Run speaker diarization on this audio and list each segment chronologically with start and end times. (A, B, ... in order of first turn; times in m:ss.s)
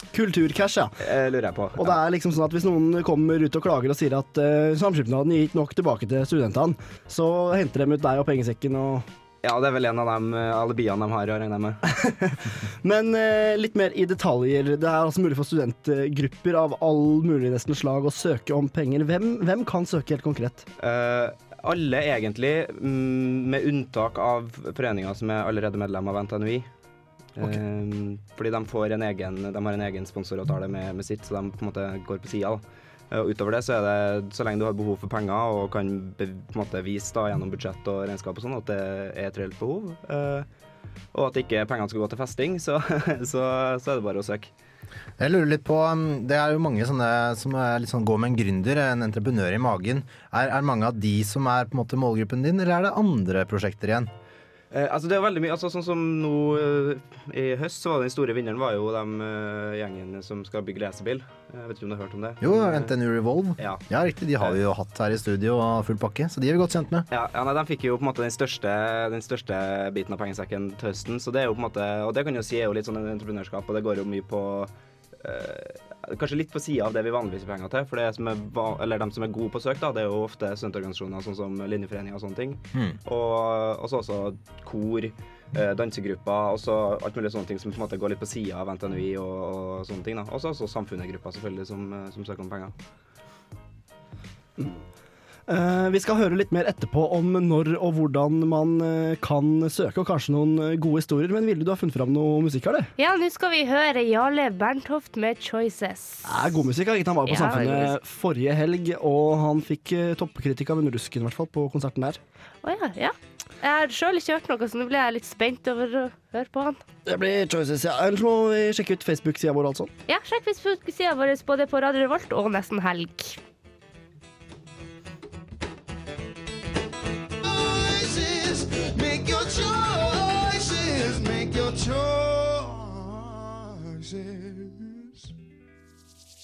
0:00.1-0:01.0 A
0:01.0-0:02.0 B
0:01.8-0:09.1 A
0:09.4-0:11.8 B
0:11.9-0:20.7 A
0:20.8-0:26.7 B
0:27.4-0:40.5 B
0:41.1-0:44.5 B
0:45.2-0:54.1 C
0:54.7-1:02.9 B
1:02.4-1:07.1 C
1:07.1-1:32.7 B
1:35.5-1:42.9 A
1:43.0-1:46.3 D
1:46.3-1:52.2 A
1:47.3-1:47.9 D
1:52.6-1:56.8 D
1:57.1-1:59.9 A
2:00.1-2:03.4 D
2:07.6-2:12.5 E